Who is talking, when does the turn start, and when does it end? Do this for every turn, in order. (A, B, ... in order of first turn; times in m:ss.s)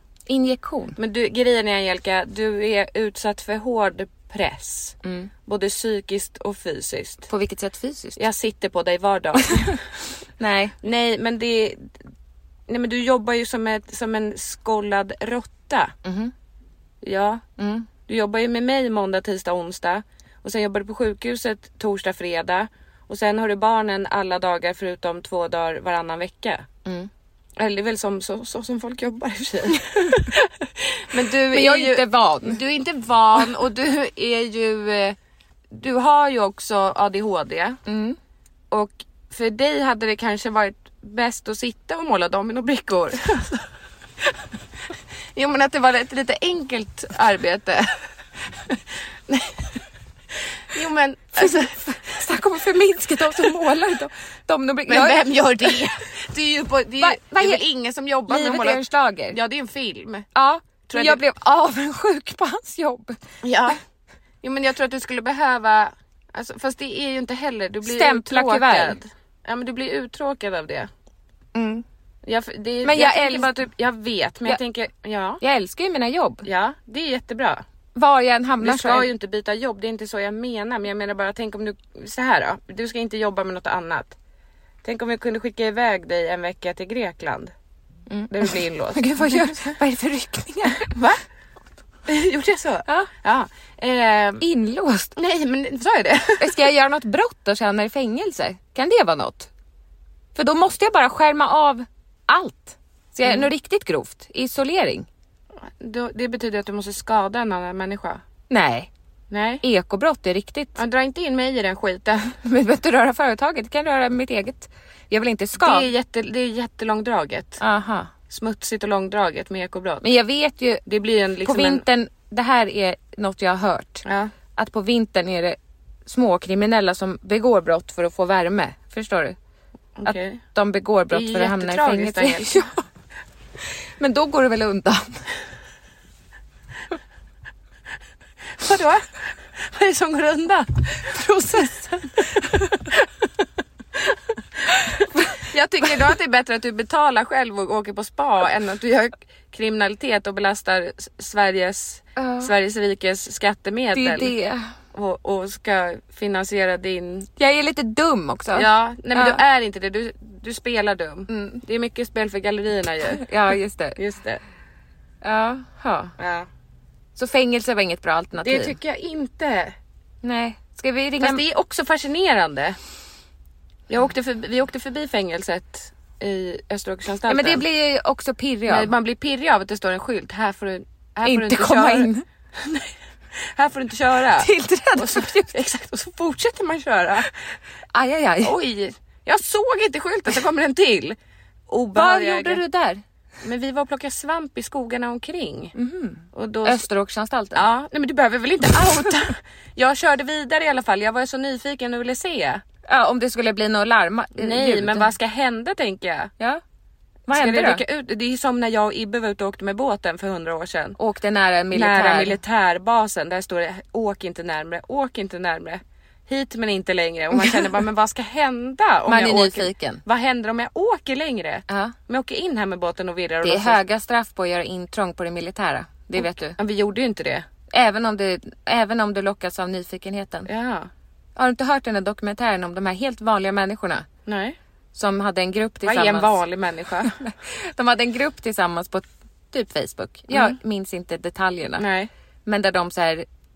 0:00.3-0:01.0 A
0:01.0-0:07.3 B
0:05.0-0:05.3 A
0:07.3-0:08.2 A
0:08.2-0:09.8 B
0:10.4-0:10.7 A
0:10.8-0:11.9 B
0:12.7-0:15.9 B
0:16.0-0:16.3 A
0:17.0-0:17.4 B
0:17.6-0:17.9 A
0:18.1-0:26.7 B
0:26.8-0:27.1 A
0:27.6-0:35.2 B
0:31.5-0:32.6 A
0:35.7-0:37.8 B
0:37.9-0:38.2 A
0:38.7-0:43.6 B
0:45.3-0:48.0 B
0:49.3-0:49.8 B
0:50.3-0:52.2 B
0:51.4-0:55.9 A
0:54.9-1:00.3 B
0:57.0-0:57.6 A
0:58.3-0:59.4 A
1:00.3-1:03.2 A
1:00.9-1:01.2 B
1:03.4-1:03.8 B
1:04.4-1:10.9 B
1:07.8-1:09.0 A
1:11.5-1:11.8 A
1:12.2-1:15.4 B
1:12.8-1:13.6 A
1:15.4-1:16.4 A
1:16.4-1:17.6 B
1:17.9-1:19.1 A
1:18.6-1:24.2 B
1:24.8-1:27.5 B
1:28.1-1:30.9 A
1:28.3-1:29.8 B
1:30.8-1:31.2 B
1:32.1-1:34.4 B
1:34.4-1:35.1 A
1:35.2-1:36.6 B
1:36.4-1:39.5 A
1:40.3-1:45.1 A
1:45.6-1:48.2 B
1:48.5-1:48.9 A
1:49.3-1:49.6 B
1:49.6-1:50.8 A
1:50.8-1:52.4 B
1:52.4-1:55.9 A
1:55.6-1:57.6 B
1:57.6-1:58.1 A
1:58.3-2:00.0 B
2:00.0-2:00.8 A
2:00.8-2:01.8 B
2:01.4-2:04.0 A
2:04.0-2:04.3 B
2:04.6-2:09.4 A
2:10.0-2:10.4 B
2:10.0-2:12.8 A
2:11.1-2:12.7 B
2:14.0-2:15.3 A
2:18.6-2:23.0 B
2:25.4-2:34.3 B
2:32.2-2:32.5 A
2:33.9-2:34.7 A
2:34.9-2:37.3 B
2:37.4-2:39.4 A
2:38.5-2:43.3 B
2:41.3-2:41.6 A
2:43.1-2:44.0 A
2:44.0-2:44.4 B
2:45.2-2:46.1 A
2:46.2-2:46.5 B
2:47.2-2:48.8 A
2:48.4-2:49.7 B
2:50.2-2:51.4 A
2:51.2-2:52.8 B
2:53.9-2:57.6 B
2:57.3-2:58.9 A
2:58.7-3:07.4 B
3:01.2-3:02.2 A
3:04.4-3:05.6 A
3:07.9-3:08.6 A
3:08.4-3:11.2 B
3:11.7-3:12.6 B
3:11.9-3:13.0 A
3:13.4-3:15.7 B
3:15.8-3:17.6 A
3:16.3-3:16.8 B
3:17.5-3:22.6 B
3:22.9-3:25.1 A
3:24.4-3:26.3 B
3:27.3-3:27.8 A
3:27.3-3:31.0 B
3:31.0-3:32.4 A
3:31.7-3:43.8 B
3:37.3-3:37.7 A
3:39.0-3:40.0 A
3:41.7-3:42.0 A
3:43.4-3:46.6 A
3:46.2-3:47.4 B
3:47.7-3:50.5 A
3:50.4-3:50.9 B
3:51.4-3:54.1 A
3:54.2-3:54.6 B
3:54.9-3:56.4 A
3:55.8-3:57.1 B
3:57.0-4:01.8 A
4:00.3-4:00.6 B
4:01.8-4:02.1 B
4:02.4-4:03.3 A